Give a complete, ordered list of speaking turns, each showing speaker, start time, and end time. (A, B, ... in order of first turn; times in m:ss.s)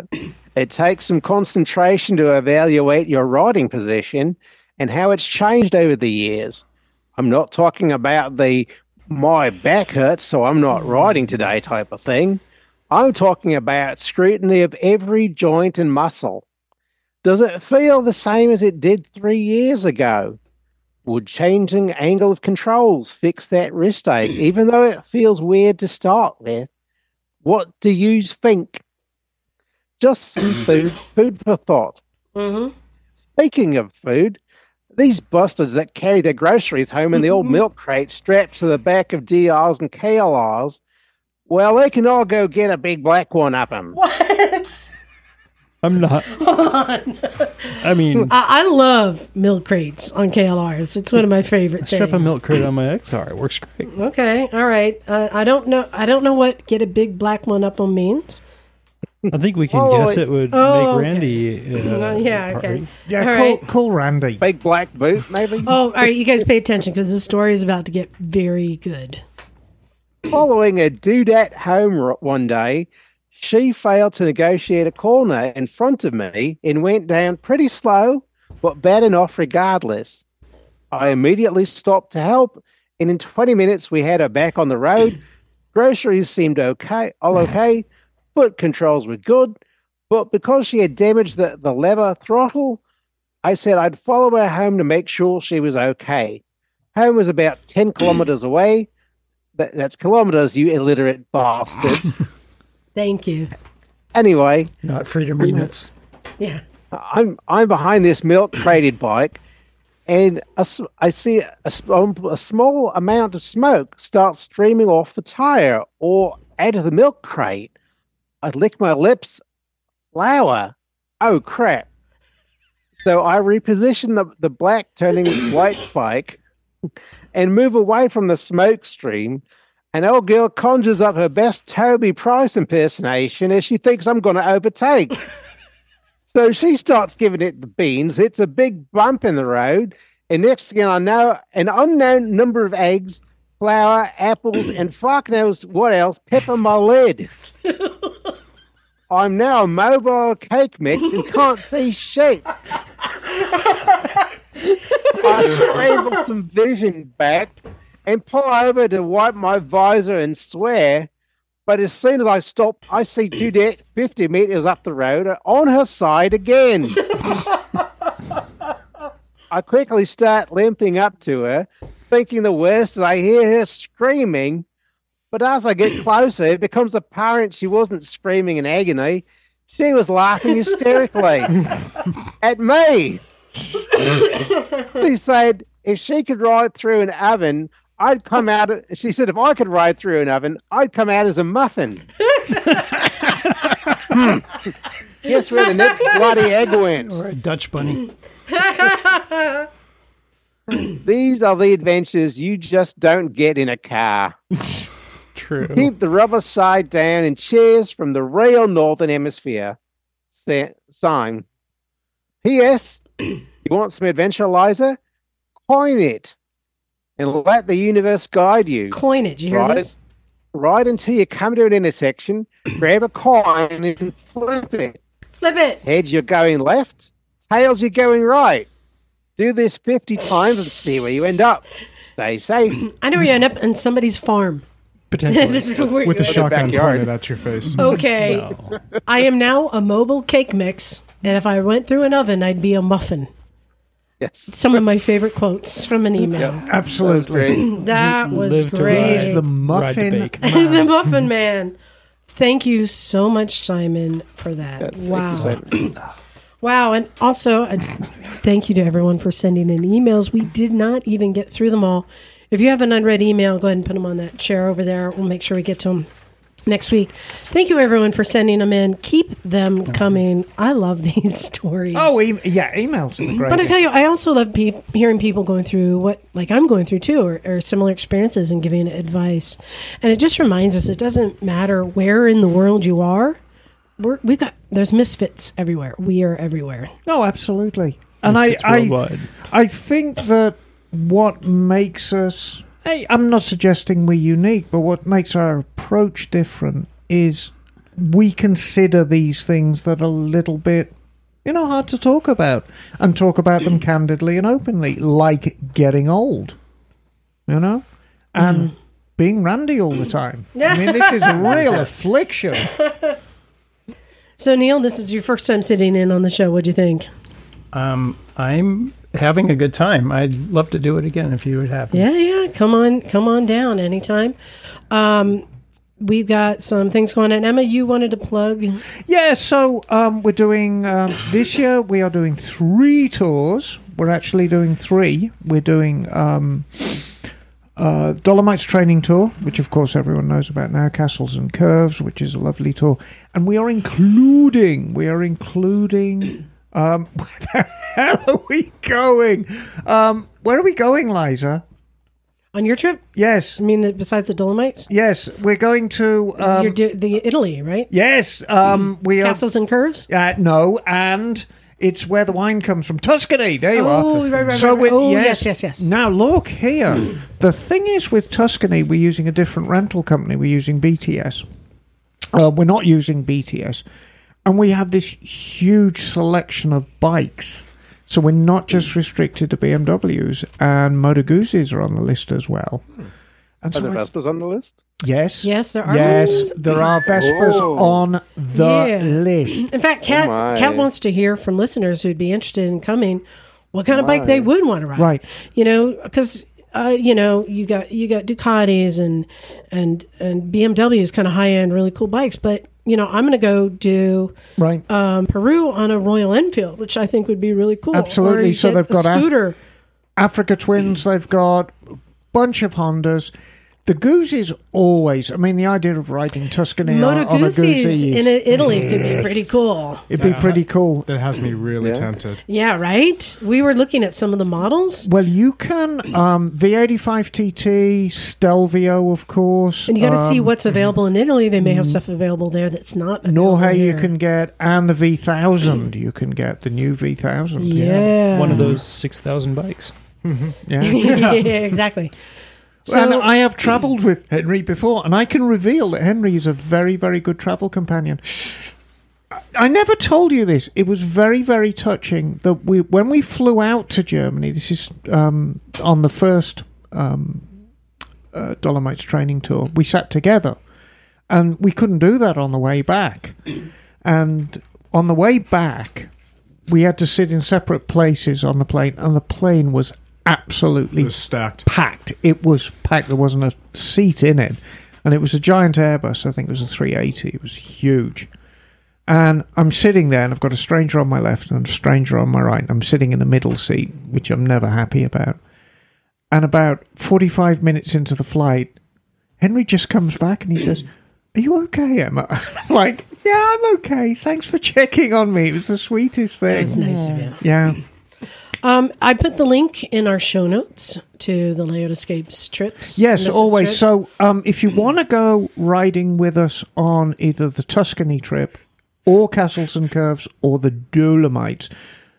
0:00.6-0:06.6 A
0:07.2-0:16.5 A
0:17.2-0:20.4 A
0:21.1-0:26.7 A
0:27.4-0:28.8 A
0:30.0-0:32.0 A
0:32.4-0:32.7 B
0:33.4-0:34.4 A
0:35.0-0:40.8 A
0:41.5-0:44.0 A
0:43.9-0:44.9 B
0:45.8-0:46.3 C
0:46.3-0:52.3 B
0:47.8-0:48.3 C
0:51.8-0:53.9 C
0:53.9-0:58.4 B
0:59.2-1:00.2 A
0:59.3-1:02.9 C
1:00.5-1:03.6 B
1:03.1-1:04.4 D
1:04.4-1:05.8 A
1:05.6-1:09.2 B
1:10.3-1:20.2 A
1:20.9-1:25.2 A
1:25.7-1:29.6 A
1:30.1-1:32.8 A
1:33.4-1:36.4 A
1:36.9-1:38.9 A
1:39.6-1:42.1 A
1:43.0-1:43.5 B
1:44.1-1:44.7 A
1:44.8-1:45.9 E
1:45.4-1:45.7 A
1:46.9-1:49.4 A
1:50.1-1:57.7 A
1:58.4-1:59.4 A
2:00.1-2:01.9 A
2:03.0-2:06.4 A
2:07.3-2:15.2 A
2:16.3-2:27.3 A
2:29.1-2:32.5 A
2:35.1-2:37.5 A
2:38.1-2:41.1 A
2:41.7-2:47.2 A
2:49.5-2:54.6 A
2:55.3-3:01.7 A
3:02.4-3:03.2 A
3:04.8-3:12.0 A
3:14.0-3:14.6 A
3:15.2-3:17.2 A
3:17.0-3:18.1 E
3:18.5-3:19.6 B
3:20.9-3:24.3 A
3:25.4-3:25.9 E
3:25.7-3:29.8 A
3:30.4-3:31.4 A
3:32.4-3:33.0 A
3:33.6-3:35.0 A
3:35.7-3:36.3 A
3:37.2-3:39.0 A
3:38.9-3:39.9 B
3:39.5-3:39.9 A
3:40.5-3:45.0 A
3:45.4-3:45.8 B
3:45.8-3:48.7 A
3:49.4-3:52.8 A
3:52.9-3:54.6 B
3:55.1-3:55.8 C
3:55.3-3:56.8 B
3:56.0-3:57.9 F
3:56.2-3:57.1 A
3:57.8-3:58.5 B
3:58.1-3:58.8 C
3:59.0-4:03.3 B
4:04.2-4:04.5 A
4:04.5-4:06.7 B
4:06.3-4:07.7 A
4:06.6-4:07.8 D
4:07.5-4:09.5 B
4:08.0-4:10.4 C
4:08.8-4:10.9 D
4:10.4-4:11.8 B
4:12.3-4:16.0 B
4:14.8-4:15.7 A
4:16.6-4:26.1 B
4:26.7-4:32.2 B
4:31.9-4:33.8 D
4:33.4-4:43.4 B
4:44.0-4:46.9 B
4:47.1-5:00.9 D
4:48.2-4:49.3 C
5:01.4-5:06.6 D
5:07.5-5:12.7 D
5:10.6-5:11.7 B
5:12.8-5:13.1 B
5:14.4-5:17.1 B
5:17.7-5:22.0 E
5:21.9-5:24.4 B
5:24.9-5:25.5 B
5:26.0-5:28.8 B
5:29.1-5:37.1 D
5:37.8-5:51.6 D
5:52.5-5:53.0 B
5:53.2-5:53.6 D
5:53.6-5:54.9 B
5:54.9-5:56.8 D
5:56.4-5:57.9 B
5:57.9-5:59.4 D
5:59.2-6:00.1 B
6:00.1-6:11.4 D
6:03.7-6:05.9 B
6:12.3-6:13.8 D
6:14.4-6:22.9 D
6:23.6-6:24.0 D
6:23.7-6:24.8 A
6:25.0-6:29.7 D
6:25.4-6:26.6 B
6:27.1-6:28.0 A
6:28.5-6:44.3 B
6:30.0-6:30.9 A
6:33.9-6:34.5 A
6:35.0-6:35.2 D
6:44.6-6:44.8 D
6:44.9-6:49.6 B
6:47.9-6:49.3 D
6:50.2-6:53.3 D
6:53.8-6:58.3 D
6:56.8-7:00.1 B
6:58.9-6:59.3 D
7:00.1-7:02.4 F
7:00.2-7:01.1 D
7:01.8-7:02.1 A
7:02.5-7:05.1 B
7:05.0-7:10.5 D
7:09.9-7:14.1 B
7:11.6-7:12.0 D
7:13.3-7:18.7 D
7:17.6-7:18.8 B
7:18.3-7:19.9 C
7:20.2-7:20.6 F
7:20.6-7:21.4 D
7:20.8-7:22.1 B
7:22.9-7:28.6 D
7:22.9-7:23.3 B
7:29.4-7:37.5 D
7:38.3-7:40.6 D
7:41.3-7:46.1 D
7:46.7-7:51.2 D
7:51.0-7:51.7 F
7:51.7-7:58.3 D
7:59.1-8:05.4 D
8:06.3-8:08.8 D
8:09.4-8:17.8 D
8:16.5-8:17.4 B
8:18.6-8:23.8 B
8:23.0-8:31.7 D